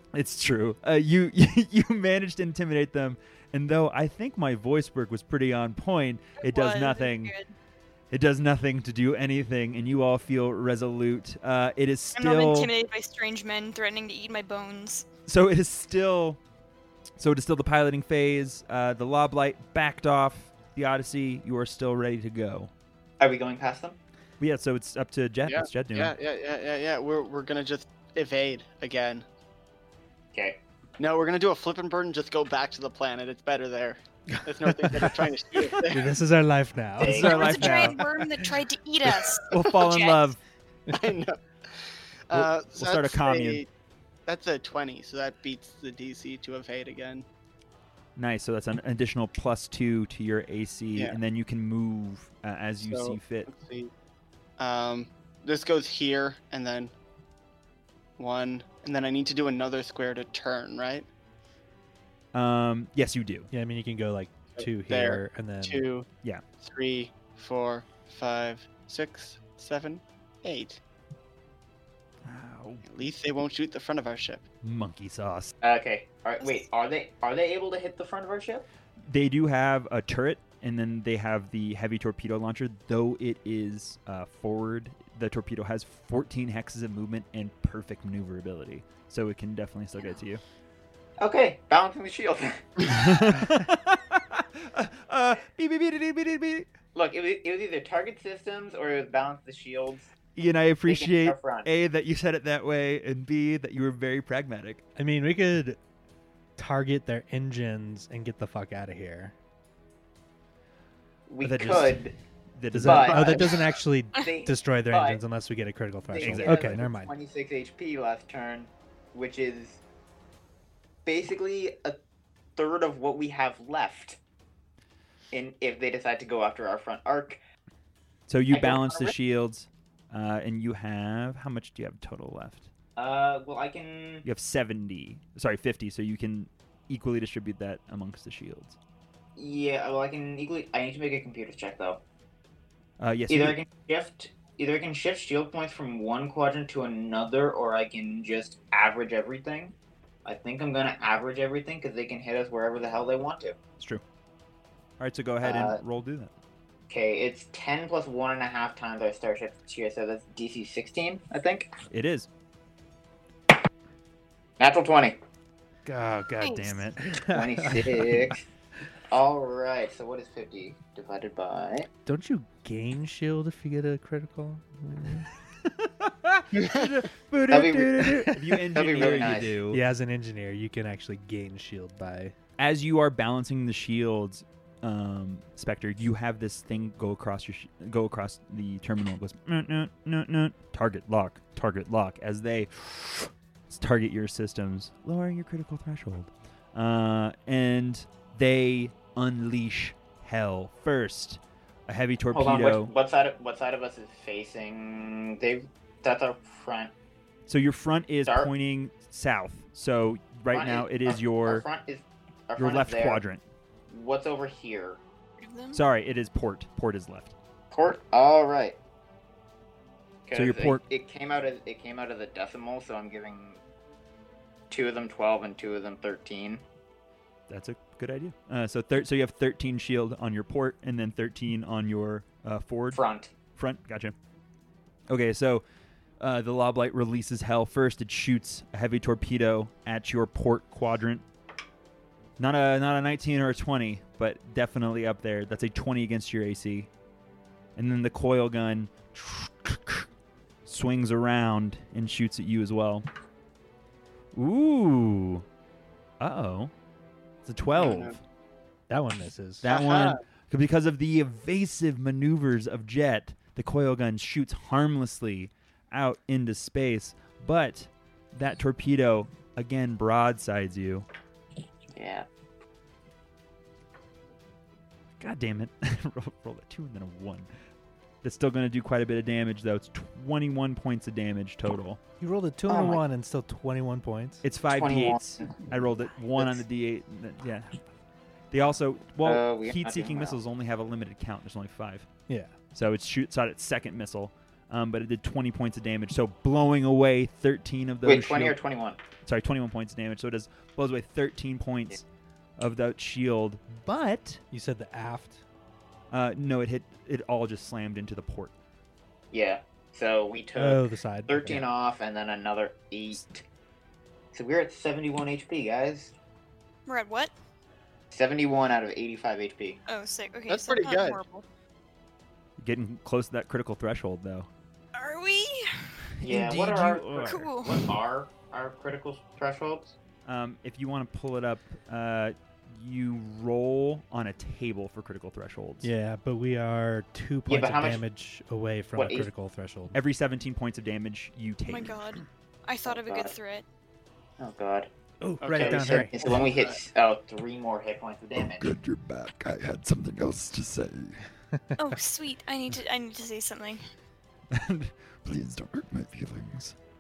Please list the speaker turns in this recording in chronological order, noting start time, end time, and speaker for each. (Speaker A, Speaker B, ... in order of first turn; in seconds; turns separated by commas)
Speaker A: 0.1-7.3, Speaker B: 6.4-7.5, Speaker A: 8.1-12.7, Speaker B: 12.2-15.1, Speaker A: 15.3-16.4, Speaker A: 17.2-22.7, Speaker C: 23.2-24.0, Speaker A: 24.4-26.1, Speaker D: 25.5-29.2, Speaker C: 30.3-30.6, Speaker D: 31.0-36.2, Speaker E: 34.3-35.2, Speaker E: 35.9-38.1, Speaker C: 37.0-37.7, Speaker A: 37.0-38.0, Speaker B: 37.2-40.3, Speaker A: 39.5-40.4, Speaker D: 40.9-43.7, Speaker A: 42.3-43.6, Speaker D: 44.3-47.3, Speaker A: 48.2-53.5, Speaker D: 52.8-53.9, Speaker D: 54.6-56.9, Speaker D: 58.2-61.1, Speaker A: 62.3-63.5, Speaker E: 63.5-65.9, Speaker D: 64.6-66.1, Speaker D: 66.6-70.8, Speaker A: 72.2-72.8, Speaker D: 72.8-74.4, Speaker A: 74.6-75.5, Speaker C: 75.6-78.7, Speaker A: 79.0-90.4, Speaker C: 91.2-92.9, Speaker A: 92.8-96.7, Speaker C: 97.0-100.1, Speaker A: 100.4-104.8, Speaker C: 100.9-101.7, Speaker E: 105.0-105.8, Speaker E: 106.6-109.3, Speaker C: 111.3-112.2, Speaker A: 111.4-113.3, Speaker E: 112.7-117.1, Speaker C: 112.8-113.6, Speaker C: 114.2-115.2, Speaker C: 116.1-119.8, Speaker A: 116.2-116.8, Speaker C: 121.0-122.0, Speaker C: 122.6-124.2, Speaker C: 125.3-127.4, Speaker A: 128.3-132.7, Speaker C: 128.5-129.2, Speaker C: 133.0-134.3, Speaker A: 134.2-138.8, Speaker C: 139.4-142.0, Speaker A: 143.0-143.6, Speaker C: 143.3-153.6, Speaker A: 155.0-156.3, Speaker C: 155.4-155.8, Speaker C: 156.9-161.7, Speaker A: 161.9-162.3, Speaker C: 164.6-165.2, Speaker A: 165.8-167.2, Speaker B: 166.4-166.8, Speaker E: 167.1-168.3, Speaker C: 167.2-168.4, Speaker C: 169.1-171.9, Speaker E: 172.1-175.3, Speaker A: 175.6-179.8, Speaker D: 176.6-176.9, Speaker C: 177.5-179.6, Speaker E: 179.7-182.3, Speaker A: 182.6-202.9, Speaker C: 202.3-206.9, Speaker A: 207.5-211.7, Speaker C: 208.2-208.5, Speaker C: 210.5-213.2, Speaker A: 212.6-213.4, Speaker C: 213.9-215.0, Speaker B: 215.4-215.8, Speaker A: 215.7-217.3, Speaker C: 217.7-218.8, Speaker C: 220.3-223.6, Speaker A: 220.3-220.8, Speaker C: 224.7-226.6, Speaker A: 227.5-233.0, Speaker C: 232.9-233.3, Speaker A: 233.5-234.2, Speaker A: 235.1-235.7, Speaker A: 236.2-241.2, Speaker A: 242.4-246.9, Speaker A: 247.8-250.1, Speaker A: 250.7-253.1, Speaker A: 254.3-255.4, Speaker A: 256.2-256.7, Speaker A: 257.4-258.2, Speaker D: 257.8-258.2, Speaker E: 258.9-259.7, Speaker A: 259.6-271.1, Speaker D: 259.7-260.2, Speaker C: 271.9-272.3, Speaker A: 275.2-277.5, Speaker A: 278.2-282.0, Speaker E: 282.2-284.4, Speaker C: 282.7-283.0, Speaker A: 284.4-287.8, Speaker C: 284.7-285.6, Speaker A: 288.5-292.1, Speaker C: 289.2-290.4, Speaker A: 292.7-298.6, Speaker C: 298.1-299.0, Speaker A: 299.2-302.0, Speaker A: 302.6-304.4, Speaker E: 304.5-305.4, Speaker A: 306.1-308.5, Speaker C: 309.3-313.4, Speaker E: 310.6-311.6, Speaker C: 314.3-316.1, Speaker B: 316.9-317.3, Speaker C: 318.1-319.8, Speaker B: 319.9-321.4, Speaker D: 320.5-321.2, Speaker A: 322.6-324.5, Speaker B: 324.9-326.1, Speaker A: 326.2-327.5, Speaker C: 326.2-329.9, Speaker B: 327.3-327.9, Speaker A: 330.3-335.9, Speaker E: 335.8-340.0, Speaker C: 337.5-338.0, Speaker C: 339.0-339.3, Speaker A: 339.9-342.2, Speaker B: 341.7-343.6, Speaker C: 342.9-343.3, Speaker C: 344.4-344.9, Speaker E: 345.2-346.4, Speaker D: 345.4-346.8, Speaker C: 345.5-348.7, Speaker F: 348.4-351.2, Speaker B: 351.8-353.8, Speaker A: 354.5-354.9, Speaker F: 355.2-356.8